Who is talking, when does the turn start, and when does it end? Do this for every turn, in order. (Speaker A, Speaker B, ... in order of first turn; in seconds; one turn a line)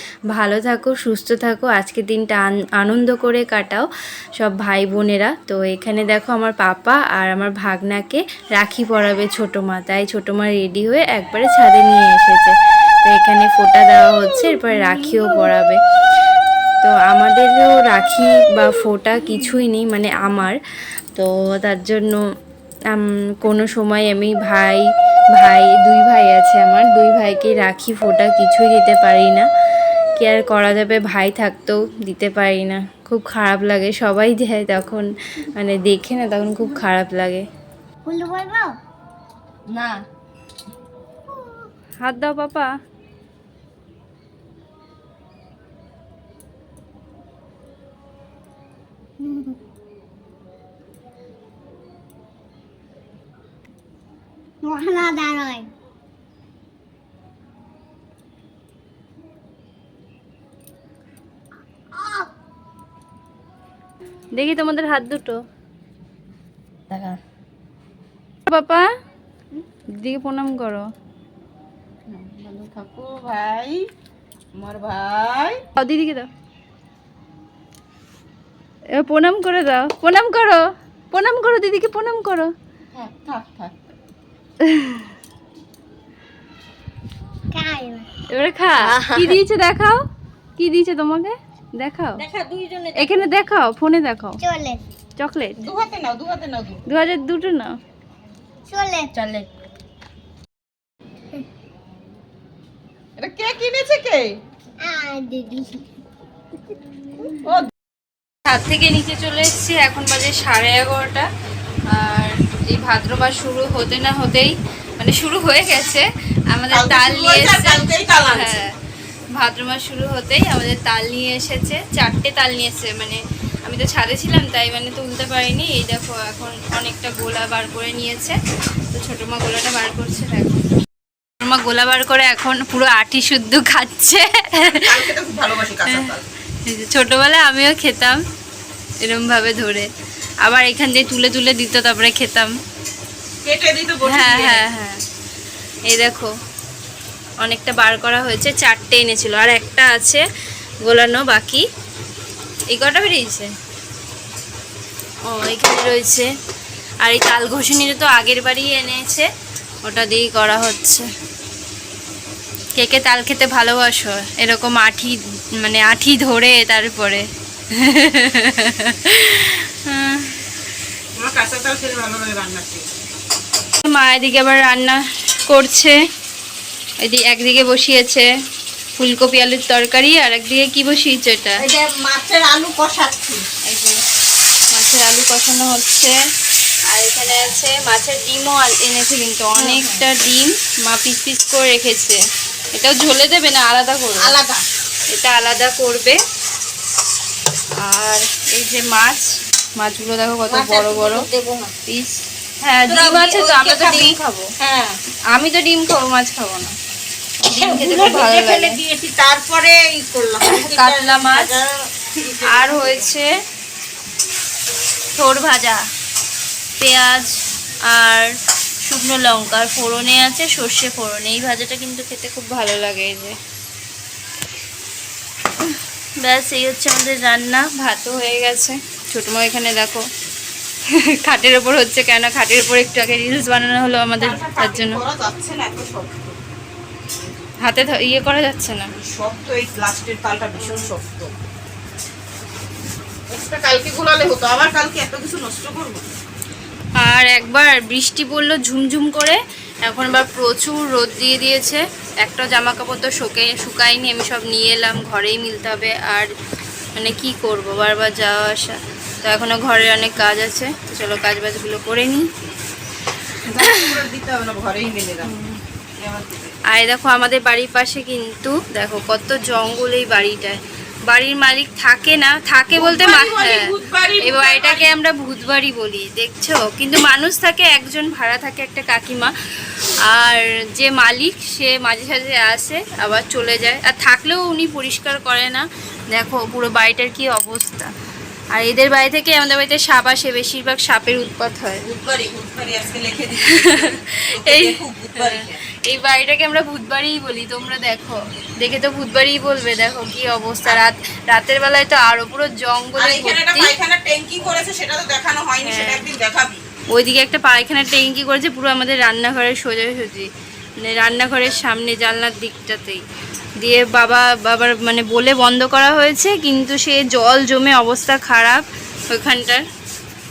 Speaker A: 0.3-3.9
Speaker A: 4.4-15.8
Speaker A: 16.8-20.6
Speaker A: 21.1-22.2
Speaker A: 22.9-29.5
Speaker A: 30.2-37.5
Speaker B: 38.0-38.8
Speaker C: 39.7-40.0
Speaker B: 41.3-41.6
Speaker A: 42.0-42.7
Speaker B: 49.2-49.6
Speaker B: 54.6-55.7
Speaker B: 61.9-62.3
Speaker A: 64.3-65.4
Speaker C: 66.9-67.2
Speaker A: 68.5-68.9
Speaker A: 70.0-70.9
Speaker C: 72.1-73.8
Speaker C: 74.6-75.6
Speaker A: 75.8-76.3
Speaker A: 78.9-82.5
Speaker C: 82.9-83.7
Speaker A: 84.6-85.1
Speaker B: 87.5-88.1
Speaker A: 88.3-90.0
Speaker C: 88.8-89.4
Speaker A: 90.6-92.2
Speaker C: 92.2-93.2
Speaker A: 92.9-94.4
Speaker B: 94.4-94.8
Speaker A: 95.2-95.6
Speaker C: 95.6-96.8
Speaker A: 96.9-97.8
Speaker B: 98.7-99.1
Speaker C: 103.2-104.3
Speaker B: 104.8-105.8
Speaker C: 107.4-107.7
Speaker A: 108.5-111.3
Speaker A: 111.9-118.7
Speaker C: 116.7-118.6
Speaker A: 119.3-128.4
Speaker A: 128.9-130.6
Speaker A: 131.4-135.1
Speaker C: 134.7-136.2
Speaker A: 135.8-136.1
Speaker A: 136.7-138.2
Speaker A: 139.0-139.9
Speaker A: 140.4-142.5
Speaker C: 143.4-144.6
Speaker A: 144.0-145.0
Speaker A: 145.8-146.3
Speaker A: 147.4-150.2
Speaker A: 150.8-151.6
Speaker A: 152.7-153.5
Speaker A: 155.2-156.3
Speaker A: 157.0-159.3
Speaker A: 159.8-161.1
Speaker A: 162.8-170.4
Speaker C: 171.2-172.9
Speaker A: 173.8-176.0
Speaker A: 177.0-178.3
Speaker A: 179.0-181.7
Speaker C: 181.6-183.5
Speaker A: 183.6-184.0
Speaker A: 184.7-186.2
Speaker A: 186.8-192.2
Speaker C: 189.6-190.0
Speaker A: 192.7-194.3
Speaker C: 194.2-194.6
Speaker A: 195.1-196.2
Speaker A: 197.8-201.3
Speaker C: 200.5-201.7
Speaker A: 201.9-204.5
Speaker C: 202.9-205.0
Speaker A: 205.3-206.7
Speaker A: 207.4-208.8
Speaker C: 207.5-213.1
Speaker A: 210.4-211.6
Speaker A: 212.4-213.4
Speaker A: 215.2-215.8
Speaker A: 216.8-217.3
Speaker A: 217.9-218.3
Speaker A: 218.8-223.4
Speaker A: 226.2-230.0
Speaker A: 230.9-235.0
Speaker C: 234.2-236.3
Speaker A: 237.6-238.9
Speaker C: 239.0-241.3
Speaker A: 240.6-240.9
Speaker C: 243.3-246.1
Speaker A: 247.0-256.3
Speaker A: 256.9-262.3
Speaker C: 263.4-265.3
Speaker A: 263.6-264.0
Speaker A: 265.2-265.6
Speaker C: 266.0-266.6
Speaker A: 266.7-287.9
Speaker C: 272.7-274.9
Speaker A: 288.5-291.8
Speaker C: 291.8-295.6
Speaker A: 293.4-303.7
Speaker C: 302.9-306.6
Speaker A: 305.6-306.0
Speaker A: 306.9-310.3
Speaker A: 310.8-313.0
Speaker A: 313.6-319.6